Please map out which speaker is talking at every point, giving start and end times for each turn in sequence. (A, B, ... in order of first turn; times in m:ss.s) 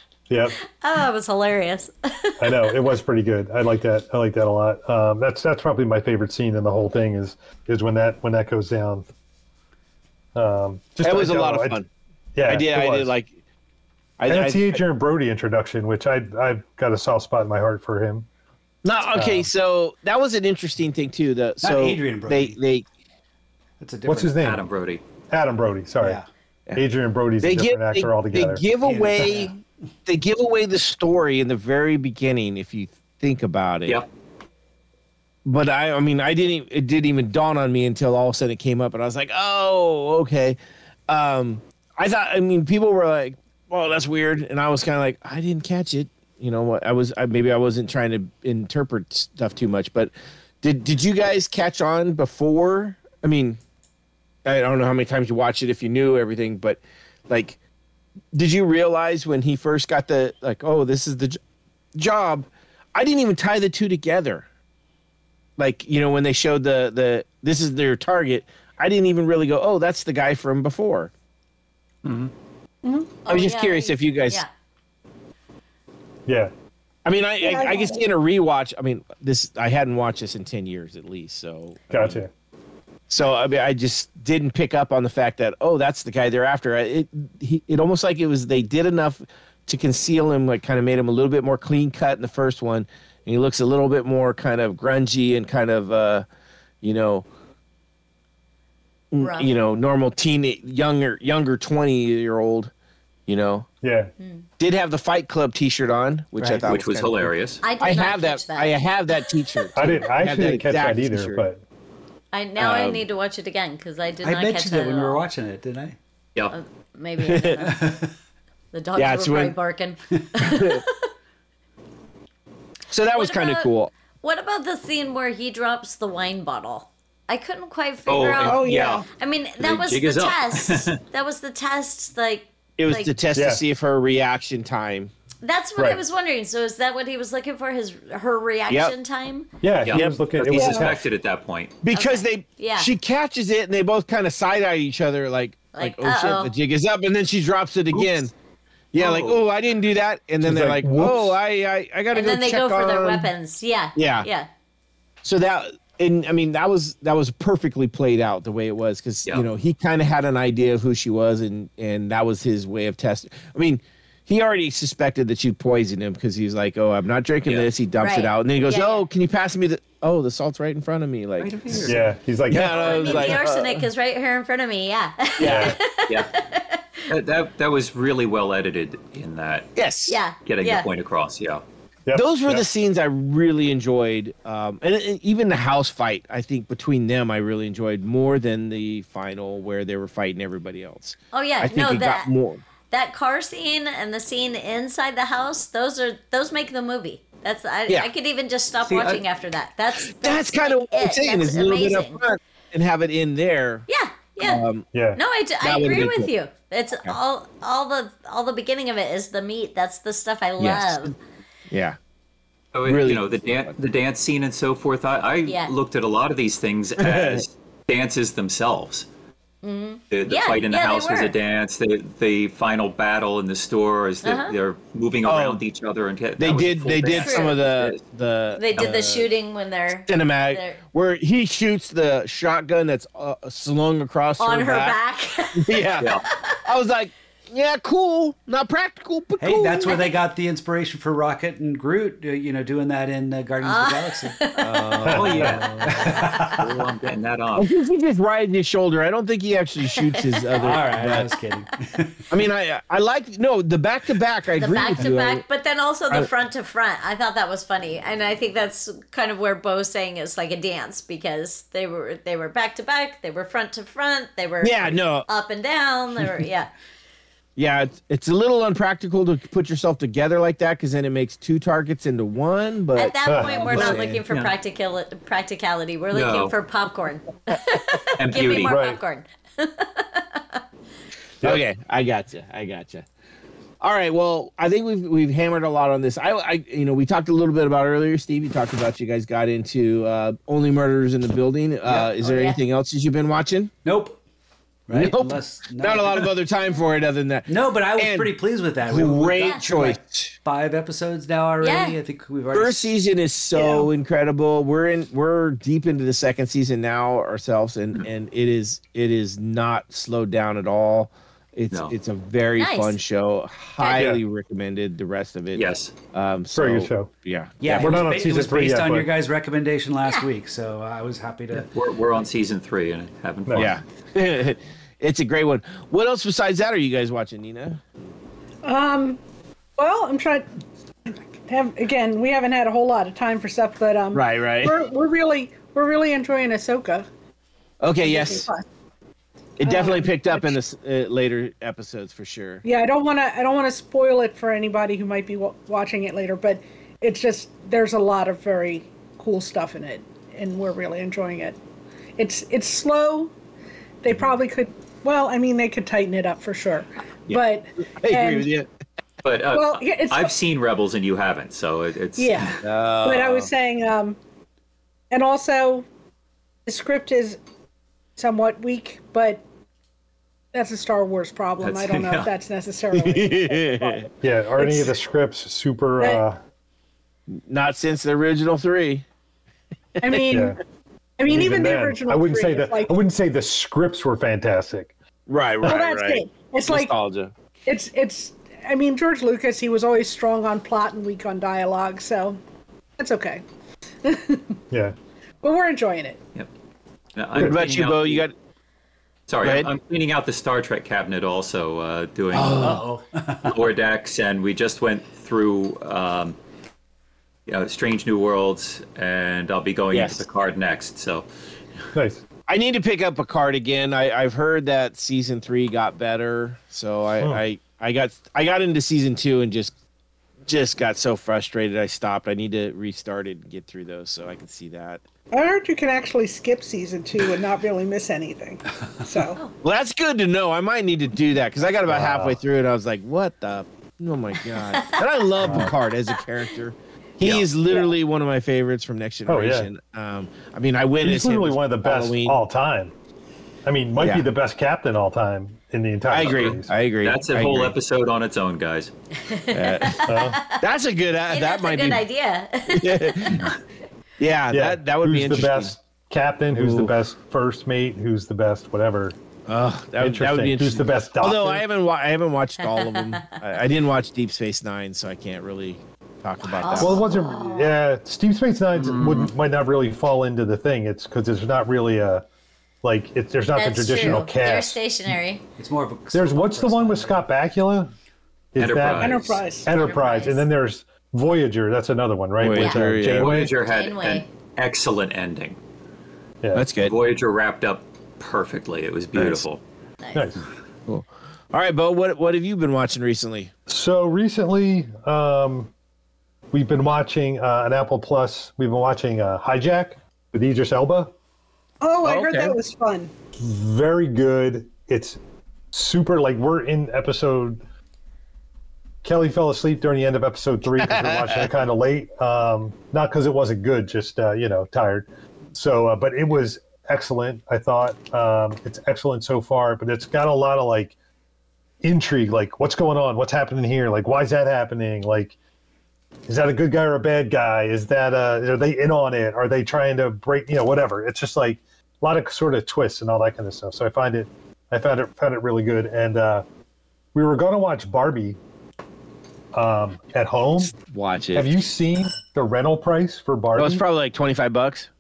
0:00.3-0:00.6 A
0:00.8-0:02.6 B
0:02.4-0:09.1 A
0:10.4-0:11.8 A
0:11.0-0:11.9 C
0:12.4-0:13.1 A
0:12.4-0:13.3 C
0:14.2-0:14.8 C
0:14.3-0:18.3 A
0:18.8-0:22.8 C
0:19.1-0:19.5 A
0:21.6-0:22.6 D
0:23.8-0:24.4 D
0:24.0-0:24.6 A
0:24.4-0:25.0 E
0:25.3-0:26.2 A
0:26.0-0:26.3 D
0:26.8-0:28.6 A
0:27.4-0:34.0 C
0:28.8-0:29.6 D
0:35.4-0:40.6 C
0:41.1-0:53.6 C
0:54.4-0:57.6 C
0:58.3-1:01.4 C
1:01.9-1:04.4 C
1:05.6-1:11.1 C
1:12.0-1:12.3 E
1:12.8-1:13.1 F
1:13.2-1:14.5 B
1:13.3-1:14.4 C
1:16.3-1:16.5 A
1:17.0-1:22.3 C
1:17.4-1:18.0 F
1:21.9-1:22.3 A
1:23.1-1:36.3 C
1:36.8-1:37.3 C
1:39.1-1:42.7 C
1:39.2-1:39.5 B
1:43.3-1:43.7 C
1:43.8-1:44.1 A
1:44.2-1:44.4 B
1:44.6-1:51.4 C
1:46.4-1:46.6 D
1:46.6-1:47.6 E
1:47.6-1:49.7 B
1:49.7-1:51.6 A
1:52.3-1:55.2 B
1:52.6-1:53.0 C
1:54.2-1:56.0 D
1:56.5-1:57.7 B
1:57.2-1:57.6 C
1:57.6-1:58.1 D
1:58.7-2:01.1 B
1:59.0-1:59.6 C
2:00.4-2:00.8 C
2:02.9-2:03.9 C
2:03.1-2:03.7 B
2:04.2-2:13.1 B
2:08.1-2:09.0 E
2:08.4-2:09.0 F
2:09.6-2:11.0 E
2:12.8-2:15.1 C
2:13.3-2:13.6 A
2:15.4-2:19.5 B
2:15.8-2:16.0 A
2:18.7-2:18.9 C
2:19.6-2:21.0 A
2:19.8-2:21.8 E
2:19.9-2:20.2 C
2:20.5-2:20.9 F
2:21.8-2:28.3 C
2:21.9-2:22.9 B
2:25.7-2:26.5 B
2:28.9-2:33.3 C
2:30.4-2:31.4 A
2:32.1-2:34.5 B
2:33.9-2:34.3 C
2:35.2-2:51.8 C
2:48.0-2:49.0 B
2:51.4-2:52.0 E
2:51.8-2:53.4 A
2:52.5-2:53.8 C
2:52.7-2:57.1 B
2:55.4-2:55.8 C
2:55.4-2:55.7 A
2:57.1-2:59.7 E
2:59.8-3:00.2 C
3:00.1-3:00.8 B
3:00.4-3:01.6 E
3:02.1-3:02.6 A
3:02.1-3:12.6 C
3:11.3-3:12.3 B
3:12.9-3:22.2 B
3:18.9-3:19.2 E
3:20.0-3:23.8 C
3:23.9-3:24.6 B
3:24.4-3:24.9 C
3:24.9-3:25.2 A
3:25.2-3:31.1 B
3:25.6-3:26.3 C
3:30.6-3:31.1 C
3:31.7-3:32.0 C
3:32.7-3:39.0 E
3:32.8-3:33.8 C
3:35.5-3:35.7 B
3:37.0-3:37.4 C
3:39.6-3:41.3 B
3:40.1-3:48.0 E
3:44.2-3:44.6 B
3:45.3-3:45.6 C
3:46.4-3:49.3 C
3:47.2-3:47.5 B
3:48.6-3:50.8 B
3:50.0-3:55.0 C
3:54.4-3:56.0 B
3:55.6-3:56.1 C
3:56.0-3:56.2 E
3:56.6-3:59.9 C
3:59.4-4:06.7 D
4:03.6-4:04.7 B
4:04.6-4:05.6 C
4:05.0-4:06.1 A
4:05.2-4:07.7 E
4:07.6-4:11.3 C
4:09.9-4:10.4 B
4:10.6-4:12.2 D
4:12.3-4:15.4 C
4:14.6-4:26.7 B
4:24.6-4:25.3 C
4:27.6-4:33.5 C
4:32.9-4:40.6 B
4:33.3-4:33.7 A
4:33.7-4:34.2 D
4:36.1-4:36.5 E
4:38.2-4:38.7 E
4:38.6-4:39.0 A
4:41.4-4:43.0 C
4:43.8-4:53.7 C
4:51.8-4:52.2 D
4:52.2-4:52.6 B
4:53.8-4:54.2 D
4:54.9-4:56.3 D
4:54.9-5:00.4 C
4:57.5-5:02.9 D
4:59.3-4:59.6 B
5:01.6-5:02.0 B
5:02.5-5:18.1 C
5:03.6-5:03.8 B
5:12.6-5:13.0 B
5:13.8-5:14.2 A
5:15.5-5:15.9 E
5:16.6-5:17.1 A
5:17.6-5:21.7 D
5:17.6-5:19.1 A
5:21.7-5:23.8 E
5:23.5-5:27.8 C
5:28.6-5:29.2 F
5:29.8-5:30.5 F
5:31.1-5:37.0 F
5:34.1-5:34.8 C
5:37.8-5:38.5 C
5:38.0-5:38.6 F
5:39.6-5:42.6 C
5:39.6-5:40.6 F
5:42.6-5:51.6 F
5:52.2-5:53.3 F
5:54.0-5:58.5 F
5:58.0-5:58.7 C
5:59.2-6:02.6 E
5:59.5-6:00.3 F
6:02.2-6:04.2 F
6:02.6-6:03.5 C
6:05.1-6:05.8 F
6:06.6-6:07.4 F
6:08.2-6:09.4 F
6:10.5-6:14.0 F
6:11.6-6:12.3 E
6:12.9-6:14.1 C
6:14.2-6:16.4 A
6:14.6-6:14.9 F
6:17.3-6:19.0 C
6:20.0-6:20.4 C
6:20.0-6:20.6 F
6:20.3-6:20.6 A
6:21.2-6:22.9 F
6:21.3-6:24.9 A
6:25.3-6:27.3 C
6:25.6-6:26.9 F
6:27.7-6:32.4 F
6:33.0-6:33.4 F
6:34.0-6:34.6 F
6:35.4-6:36.2 F
6:37.1-6:38.2 E
6:37.4-6:38.3 C
6:39.3-6:42.8 E
6:39.4-6:39.7 C
6:42.4-6:42.8 C
6:42.4-6:43.6 D
6:43.4-6:46.4 E
6:47.5-6:51.2 E
6:49.9-6:50.2 C
6:51.9-6:52.2 A
6:52.5-6:59.7 C
7:00.5-7:05.0 C
7:05.3-7:09.4 F
7:09.6-7:22.4 C
7:11.8-7:12.4 A
7:15.4-7:15.7 A
7:19.3-7:19.7 A
7:21.0-7:22.9 A
7:23.6-7:26.7 A
7:24.0-7:24.3 C
7:26.1-7:27.8 C
7:26.2-7:28.9 E
7:29.2-7:30.6 B
7:29.5-7:32.0 C
7:30.1-7:30.4 A
7:31.3-7:33.5 B
7:32.7-7:33.5 C
7:34.2-7:35.7 C
7:34.5-7:39.2 A
7:36.5-7:36.9 C
7:39.5-7:47.1 C
7:40.0-7:41.6 A
7:42.6-7:43.2 B
7:46.5-7:47.7 B
7:46.7-7:52.2 A
7:48.7-7:49.3 E
7:52.8-7:54.8 A
7:53.6-7:55.4 B
7:55.6-7:57.2 D
7:56.1-7:57.9 A
7:58.5-8:03.5 A
7:58.6-7:59.4 E
7:58.9-7:59.7 F
7:59.7-8:00.4 B
8:02.4-8:03.5 C
8:02.6-8:02.8 B
8:03.1-8:05.6 E
8:03.6-8:04.3 B
8:06.5-8:07.0 C
8:06.8-8:09.6 E
8:10.0-8:10.3 B
8:10.1-8:10.4 A
8:10.9-8:13.5 C
8:13.7-8:15.7 A
8:16.5-8:21.1 A
8:21.8-8:23.1 F
8:22.0-8:22.6 C
8:23.4-8:25.2 A
8:25.7-8:27.6 A
8:29.0-8:40.9 A
8:30.8-8:31.4 C
8:41.8-8:45.4 A
8:46.3-8:56.4 A
8:57.1-8:58.4 A
8:59.5-9:00.7 A
9:00.6-9:01.5 C
9:01.4-9:03.8 A
9:03.6-9:04.9 C